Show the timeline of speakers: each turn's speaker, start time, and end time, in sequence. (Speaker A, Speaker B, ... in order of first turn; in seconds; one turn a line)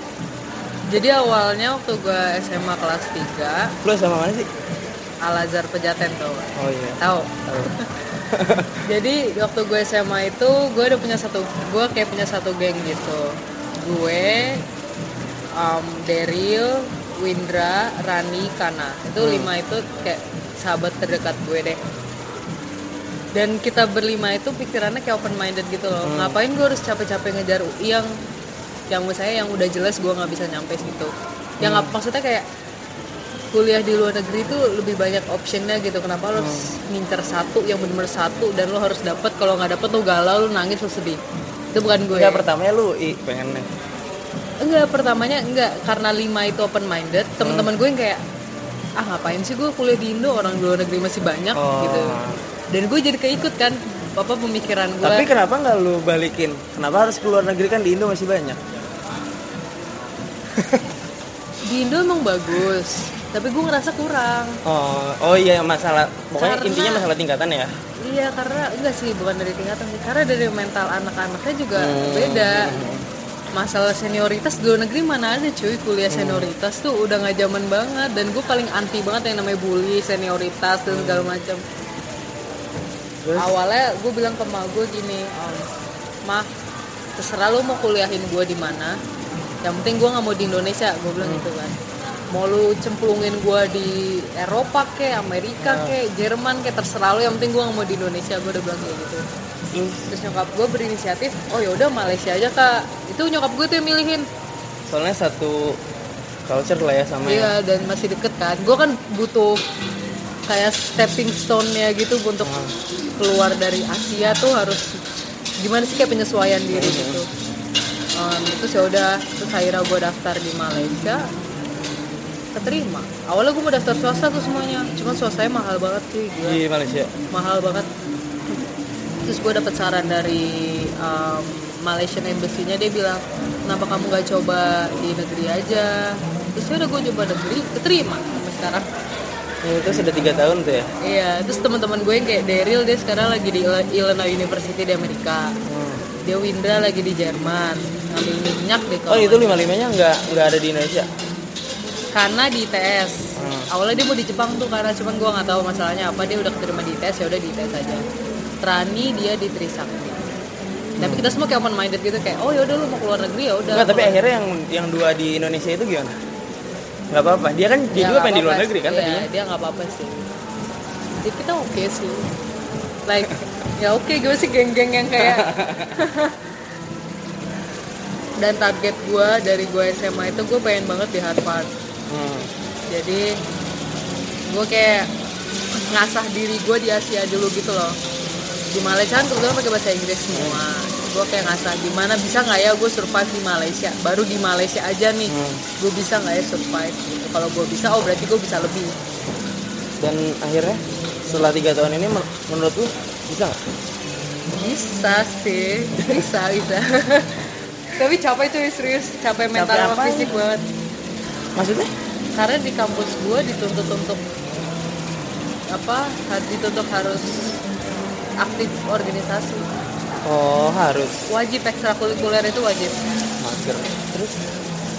Speaker A: 0.9-3.7
Speaker B: 3.8-4.5
Speaker A: 5.2-7.9
Speaker B: 6.5-7.7
Speaker B: 8.3-8.8
Speaker A: 8.8-14.6
Speaker A: 15.6-21.8
Speaker B: 19.2-19.5
Speaker A: 23.3-28.1
Speaker B: 26.0-26.4
Speaker A: 28.9-32.5
Speaker B: 31.6-31.9
Speaker A: 33.5-41.2
Speaker B: 36.4-36.7
Speaker A: 41.7-42.4
Speaker B: 42.1-43.7
Speaker A: 44.6-48.2
Speaker B: 47.4-47.7
Speaker A: 49.0-52.2
Speaker B: 51.5-52.4
Speaker A: 52.7-55.3
Speaker B: 55.0-58.6
Speaker B: 60.5-60.8
Speaker A: 61.7-64.6
Speaker B: 64.6-67.7
Speaker A: 66.4-67.1
Speaker A: 68.0-72.8
Speaker B: 71.8-73.0
Speaker A: 73.5-81.6
Speaker B: 76.1-76.5
Speaker B: 80.9-81.3
Speaker B: 83.2-83.5
Speaker A: 83.3-85.6
Speaker A: 87.2-89.0
Speaker A: 89.6-91.8
Speaker B: 91.2-91.5
Speaker A: 92.3-99.2
Speaker B: 95.6-95.9
Speaker B: 99.7-100.1
Speaker A: 100.1-104.2
Speaker B: 104.9-105.8
Speaker B: 106.5-107.5
Speaker A: 107.2-109.6
Speaker A: 110.5-112.5
Speaker B: 112.4-112.7
Speaker A: 113.2-115.0
Speaker A: 115.6-117.2
Speaker B: 116.7-117.2
Speaker A: 118.2-121.3
Speaker A: 122.5-126.6
Speaker B: 126.4-127.1
Speaker A: 127.3-127.9
Speaker A: 129.2-138.9
Speaker B: 139.6-140.9
Speaker A: 141.0-145.5
Speaker B: 145.7-146.0
Speaker A: 146.2-149.7
Speaker B: 149.1-151.1
Speaker A: 152.1-153.2
Speaker B: 153.4-153.7
Speaker A: 153.7-158.0
Speaker A: 158.6-160.2
Speaker A: 161.0-164.2
Speaker B: 161.0-161.3
Speaker B: 163.7-166.1
Speaker B: 167.1-169.3
Speaker A: 167.9-170.3
Speaker A: 171.2-172.3
Speaker A: 173.1-176.4
Speaker B: 175.2-175.9
Speaker A: 178.4-181.7
Speaker B: 182.1-182.5
Speaker A: 182.9-183.3
Speaker A: 184.5-185.1
Speaker A: 185.9-188.0
Speaker A: 188.7-198.9
Speaker B: 190.3-190.6
Speaker B: 195.3-195.6
Speaker B: 200.0-203.6
Speaker A: 204.5-210.6
Speaker B: 209.5-210.3
Speaker B: 211.6-211.9
Speaker A: 212.3-214.2
Speaker A: 215.7-217.5
Speaker A: 218.4-219.7
Speaker B: 220.2-221.2
Speaker A: 221.3-222.9
Speaker B: 223.4-224.4